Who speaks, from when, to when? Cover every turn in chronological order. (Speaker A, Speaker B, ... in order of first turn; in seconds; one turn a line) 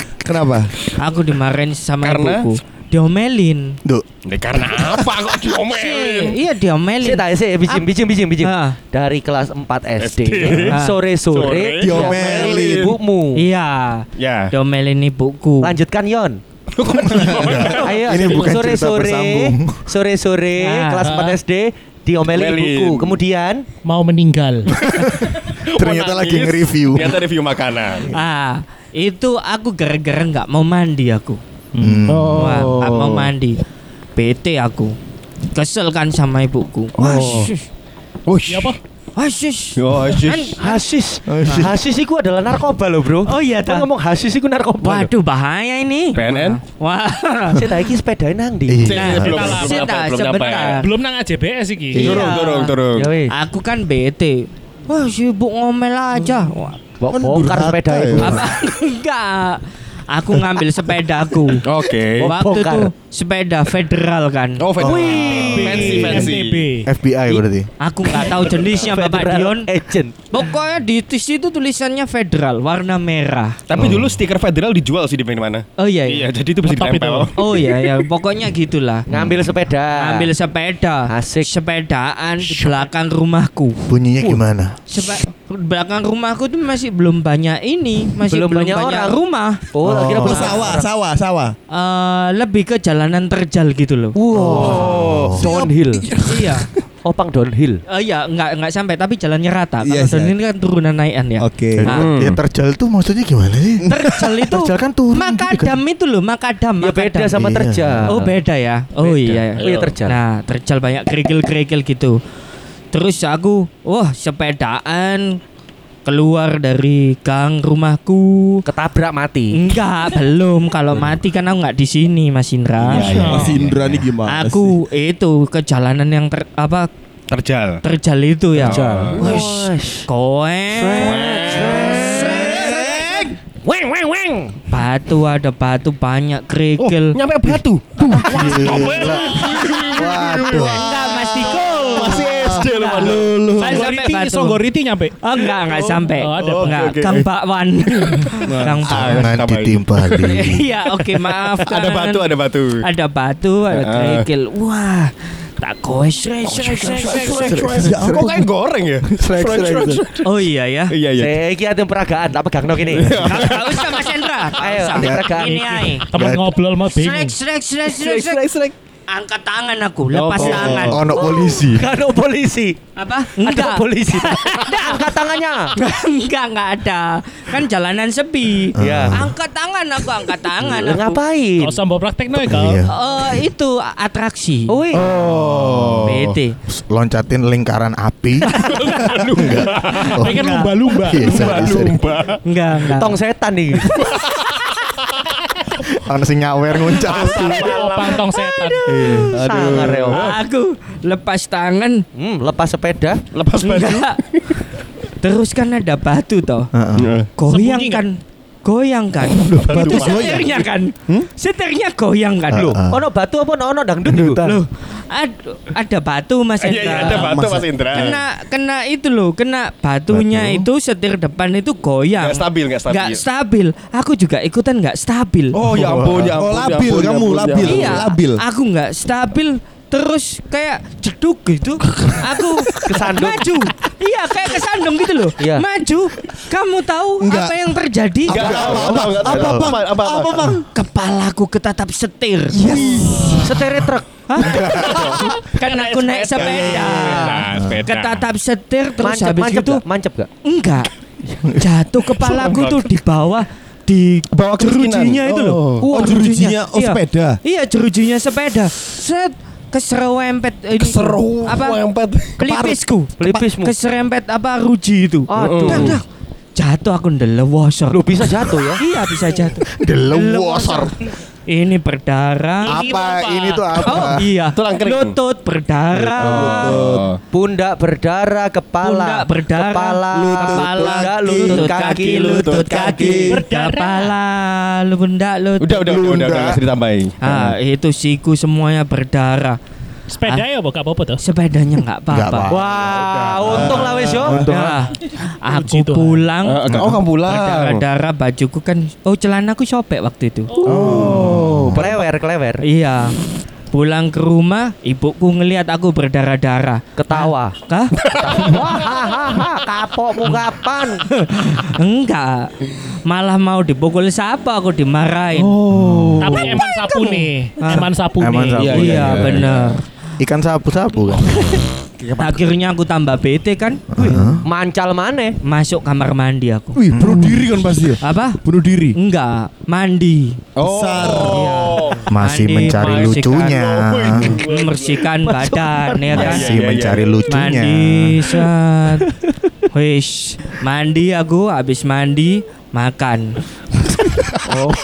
Speaker A: 0.2-0.7
Speaker B: 1.0-3.8
Speaker C: 2.0-2.5
Speaker C: 4.2-6.4
Speaker B: 5.7-7.8
Speaker D: 7.0-13.4
Speaker B: 8.4-8.8
Speaker C: 10.0-10.8
Speaker B: 10.7-11.0
Speaker C: 11.3-12.9
Speaker A: 11.8-12.9
Speaker B: 13.3-15.8
Speaker C: 14.2-14.5
Speaker D: 15.6-16.4
Speaker C: 16.7-18.0
Speaker E: 17.0-19.9
Speaker D: 17.8-23.6
Speaker B: 20.6-21.2
Speaker F: 21.1-21.4
Speaker C: 22.2-23.2
Speaker F: 23.8-24.8
Speaker E: 24.8-27.2
Speaker C: 25.2-28.1
Speaker B: 28.1-31.4
Speaker F: 31.7-32.0
Speaker E: 31.8-32.5
Speaker C: 32.1-33.3
Speaker B: 32.3-33.6
Speaker B: 34.1-34.9
Speaker B: 35.5-37.6
Speaker C: 37.0-37.5
Speaker C: 38.2-38.7
Speaker F: 38.5-38.8
Speaker B: 39.1-40.8
Speaker C: 39.8-40.6
Speaker D: 40.6-45.1
Speaker E: 41.2-41.7
Speaker B: 43.3-43.9
Speaker B: 44.8-47.7
Speaker C: 46.1-46.6
Speaker D: 47.5-48.9
Speaker E: 48.7-49.5
Speaker C: 48.8-50.8
Speaker B: 48.9-50.9
Speaker F: 49.1-49.9
Speaker F: 50.8-52.0
Speaker B: 52.0-52.7
Speaker E: 52.0-52.2
Speaker C: 52.0-53.1
Speaker D: 52.9-53.3
Speaker B: 53.3-56.8
Speaker D: 57.0-58.5
Speaker A: 57.1-58.4
Speaker B: 58.2-61.6
Speaker C: 61.6-62.3
Speaker B: 62.2-65.7
Speaker D: 62.2-62.9
Speaker C: 64.6-66.6
Speaker E: 64.8-65.3
Speaker D: 64.8-66.1
Speaker F: 65.3-66.9
Speaker E: 66.8-67.7
Speaker B: 67.8-69.7
Speaker D: 68.7-70.2
Speaker B: 70.3-73.6
Speaker C: 73.7-77.7
Speaker E: 73.8-74.2
Speaker B: 75.8-76.3
Speaker F: 76.6-77.3
Speaker B: 77.4-79.1
Speaker D: 79.1-80.3
Speaker C: 79.1-79.4
Speaker B: 80.0-83.8
Speaker D: 81.1-81.5
Speaker E: 83.9-84.8
Speaker B: 84.9-89.6
Speaker D: 88.2-89.2
Speaker D: 89.7-90.9
Speaker E: 89.8-90.6
Speaker A: 89.9-91.5
Speaker B: 91.7-94.2
Speaker D: 94.1-96.0
Speaker A: 94.5-95.5
Speaker C: 94.5-95.4
Speaker E: 94.6-95.5
Speaker B: 96.2-96.7
Speaker D: 97.0-97.8
Speaker B: 97.9-102.1
Speaker A: 99.8-100.3
Speaker A: 101.4-102.0
Speaker E: 101.8-105.8
Speaker C: 101.9-102.4
Speaker B: 103.8-107.3
Speaker D: 106.8-108.3
Speaker E: 107.3-108.1
Speaker B: 108.0-112.2
Speaker D: 109.0-110.2
Speaker C: 109.6-109.9
Speaker B: 112.9-115.4
Speaker B: 116.0-118.6
Speaker D: 118.7-119.6
Speaker B: 119.5-123.2
Speaker C: 122.8-124.0
Speaker A: 122.9-124.7
Speaker F: 123.1-123.6
Speaker B: 124.3-126.9
Speaker C: 127.3-127.8
Speaker B: 127.8-132.7
Speaker C: 128.6-129.3
Speaker D: 128.6-130.0
Speaker C: 130.9-133.0
Speaker D: 131.0-134.3
Speaker A: 132.2-133.3
Speaker C: 133.7-134.5
Speaker B: 134.7-137.2
Speaker C: 136.8-143.4
Speaker B: 138.2-139.2
Speaker E: 138.2-140.9
Speaker B: 140.5-144.6
Speaker E: 141.6-142.6
Speaker A: 142.9-143.9
Speaker F: 143.6-145.2
Speaker B: 145.2-149.4
Speaker C: 145.4-147.3
Speaker F: 146.2-146.9
Speaker C: 148.0-152.8
Speaker A: 148.4-149.1
Speaker E: 148.9-150.6
Speaker B: 150.2-152.3
Speaker B: 152.8-157.5
Speaker C: 153.7-154.3
Speaker C: 156.5-161.4
Speaker E: 157.0-158.5
Speaker A: 157.7-158.3
Speaker E: 159.0-160.0
Speaker B: 160.2-160.9
Speaker D: 161.1-163.5
Speaker C: 162.9-163.9
Speaker B: 163.2-166.1
Speaker D: 164.6-165.9
Speaker E: 165.0-165.2
Speaker E: 166.0-166.4
Speaker F: 166.1-167.3
Speaker B: 166.9-168.4
Speaker C: 167.9-168.7
Speaker B: 169.1-171.5
Speaker C: 170.1-171.0
Speaker A: 170.3-171.0
Speaker E: 170.6-171.9
Speaker D: 171.2-172.8
Speaker B: 172.9-175.1
Speaker D: 173.3-175.7
Speaker B: 175.7-181.2
Speaker D: 178.8-179.2
Speaker E: 178.8-179.3
Speaker D: 180.6-181.7
Speaker F: 181.6-182.8
Speaker E: 182.3-183.3
Speaker B: 182.9-184.8
Speaker D: 184.7-185.1
Speaker C: 185.0-186.4
Speaker B: 186.0-186.6
Speaker E: 186.7-190.3
Speaker B: 188.4-190.9
Speaker C: 188.5-190.2
Speaker F: 190.1-191.6
Speaker E: 190.9-192.0
Speaker C: 191.2-192.4
Speaker B: 192.4-193.2
Speaker D: 192.9-193.9
Speaker C: 193.9-195.2
Speaker E: 195.9-197.9
Speaker C: 196.8-198.2
Speaker F: 197.5-199.1
Speaker B: 198.1-202.0
Speaker E: 198.8-199.3
Speaker C: 199.3-200.4
Speaker D: 199.3-200.3
Speaker D: 202.2-203.2
Speaker C: 203.3-204.6
Speaker B: 203.6-204.2
Speaker B: 205.2-206.7
Speaker E: 206.7-207.2
Speaker C: 207.0-207.3
Speaker B: 207.4-212.8
Speaker F: 207.5-208.0
Speaker E: 209.3-210.4
Speaker C: 209.6-210.6
Speaker A: 209.9-210.4
Speaker E: 212.5-213.0
Speaker D: 212.5-214.4
Speaker E: 214.1-214.6
Speaker B: 214.4-225.6
Speaker C: 216.6-218.2
Speaker A: 216.9-218.2
Speaker E: 220.1-220.7
Speaker C: 222.2-223.2
Speaker C: 225.5-228.0
Speaker E: 225.7-226.3
Speaker A: 225.9-228.4
Speaker B: 227.6-238.6
Speaker D: 232.8-233.5
Speaker D: 235.4-235.6
Speaker A: 237.2-237.7
Speaker A: 238.3-240.6
Speaker C: 238.3-240.6
Speaker E: 238.3-239.7
Speaker B: 240.7-243.4
Speaker A: 242.5-243.5
Speaker D: 243.4-244.1
Speaker B: 244.3-249.8
Speaker E: 244.4-245.4
Speaker C: 244.7-248.2
Speaker E: 247.6-247.8
Speaker D: 249.0-250.3
Speaker B: 250.4-250.9
Speaker B: 251.6-261.8
Speaker C: 252.2-252.9
Speaker C: 254.4-255.9
Speaker D: 255.8-256.2
Speaker A: 255.9-257.4
Speaker C: 260.8-262.6
Speaker B: 262.4-266.0
Speaker D: 263.2-263.7
Speaker D: 265.3-266.0
Speaker C: 265.4-266.0
Speaker B: 266.6-270.9
Speaker D: 267.9-268.8
Speaker E: 269.7-271.0
Speaker B: 271.5-272.8
Speaker F: 272.6-274.0
Speaker E: 272.7-274.3
Speaker B: 273.8-276.8
Speaker C: 274.5-275.2
Speaker C: 275.9-277.2
Speaker A: 276.2-277.1
Speaker D: 277.3-283.4
Speaker B: 278.8-285.9
Speaker A: 280.1-281.6
Speaker C: 282.2-282.6
Speaker F: 283.3-284.1
Speaker C: 285.6-287.6
Speaker A: 285.9-286.3
Speaker E: 286.0-286.6
Speaker B: 287.2-289.6
Speaker F: 290.1-291.2
Speaker B: 291.2-292.5
Speaker E: 292.1-294.8
Speaker D: 292.4-294.4
Speaker A: 293.5-293.9
Speaker B: 294.3-301.2
Speaker F: 295.5-296.3
Speaker C: 296.4-297.8
Speaker E: 296.7-296.9
Speaker E: 300.6-301.8
Speaker C: 300.6-301.8
Speaker A: 300.7-301.6
Speaker D: 301.7-302.6
Speaker B: 302.6-303.1
Speaker B: 303.7-307.9
Speaker D: 306.9-307.5
Speaker C: 308.0-308.5
Speaker D: 308.1-311.1
Speaker B: 311.1-312.5
Speaker B: 313.1-315.6
Speaker C: 315.3-316.6
Speaker F: 316.2-318.8
Speaker B: 317.6-317.9
Speaker E: 318.2-319.5
Speaker C: 318.6-319.7
Speaker B: 318.7-319.8
Speaker E: 320.2-321.6
Speaker A: 322.0-322.4
Speaker B: 322.2-323.8
Speaker E: 323.9-324.4
Speaker D: 323.9-325.4
Speaker B: 325.4-326.8
Speaker A: 326.7-329.0
Speaker E: 326.9-327.5
Speaker B: 328.0-328.4
Speaker B: 328.9-330.4
Speaker C: 330.6-332.1
Speaker A: 330.6-331.5
Speaker B: 331.2-333.6
Speaker E: 332.1-334.3
Speaker C: 332.7-335.1
Speaker B: 334.2-336.6
Speaker D: 335.2-336.4
Speaker C: 336.1-337.2
Speaker E: 336.2-338.2
Speaker B: 337.3-339.1
Speaker B: 339.7-343.3